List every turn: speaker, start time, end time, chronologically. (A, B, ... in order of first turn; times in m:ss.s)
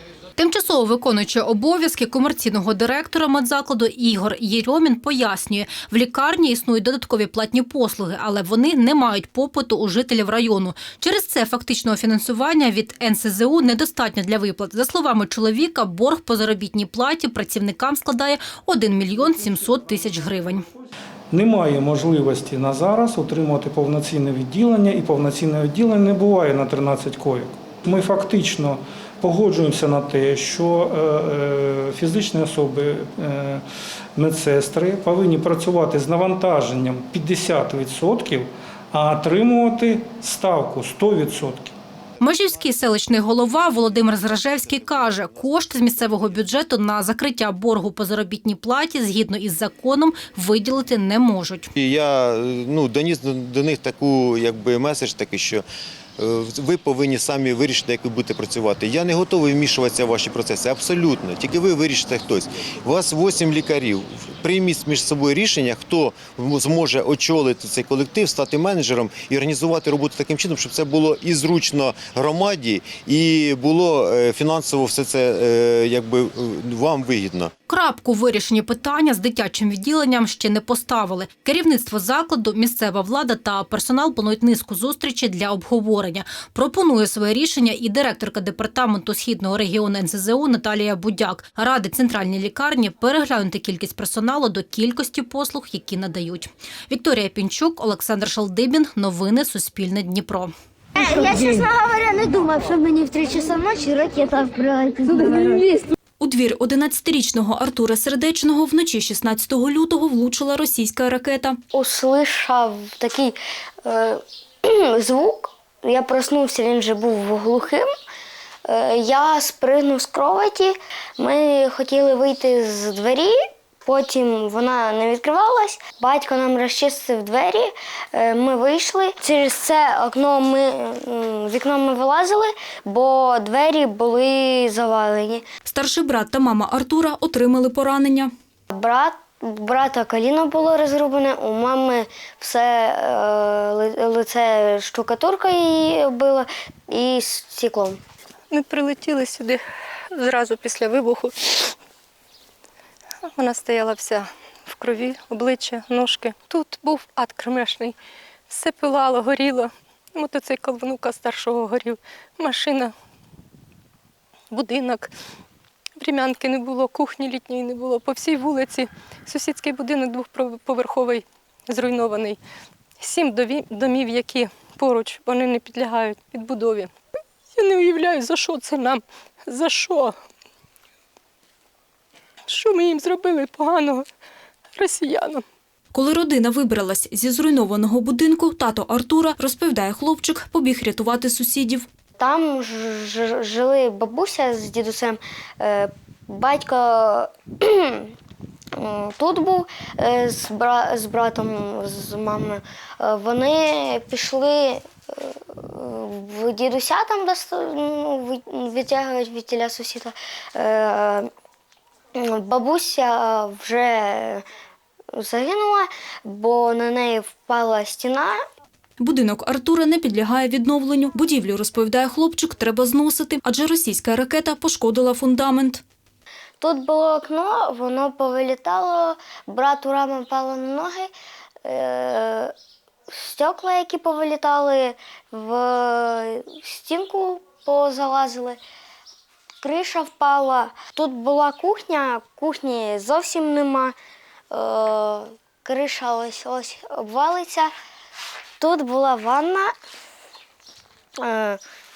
0:00.4-0:20.6 A
0:21.3-0:33.6 B
0:34.2-0:41.7 B
0:42.2-0:51.7 A
0:51.8-0:55.6 C
0:56.2-1:17.5 C
1:17.7-1:40.5 A
1:41.0-1:45.6 D
1:46.2-1:51.6 E
1:51.7-1:57.9 D
1:58.6-2:15.4 D
2:15.6-2:18.3 E
2:18.7-2:28.0 D
2:28.5-2:29.6 F
2:30.1-2:31.7 F
2:33.3-2:38.0 F
2:38.5-2:42.9 F
2:44.5-2:45.1 F
2:46.0-2:52.4 F
2:53.0-2:56.9 F
2:57.5-3:00.2 F
3:02.5-3:04.1 F
3:04.8-3:05.4 F
3:05.9-3:11.8 E
3:12.2-3:18.1 D
3:18.8-3:31.3 D
3:32.2-3:34.4 D
3:35.1-3:38.4 D
3:39.0-3:45.8 E
3:46.6-3:51.1 D
3:51.6-3:52.5 D
3:53.1-3:58.6 D
3:59.6-4:04.0 D
4:04.5-4:07.7 D
4:08.6-4:09.7 D
4:11.2-4:11.6 D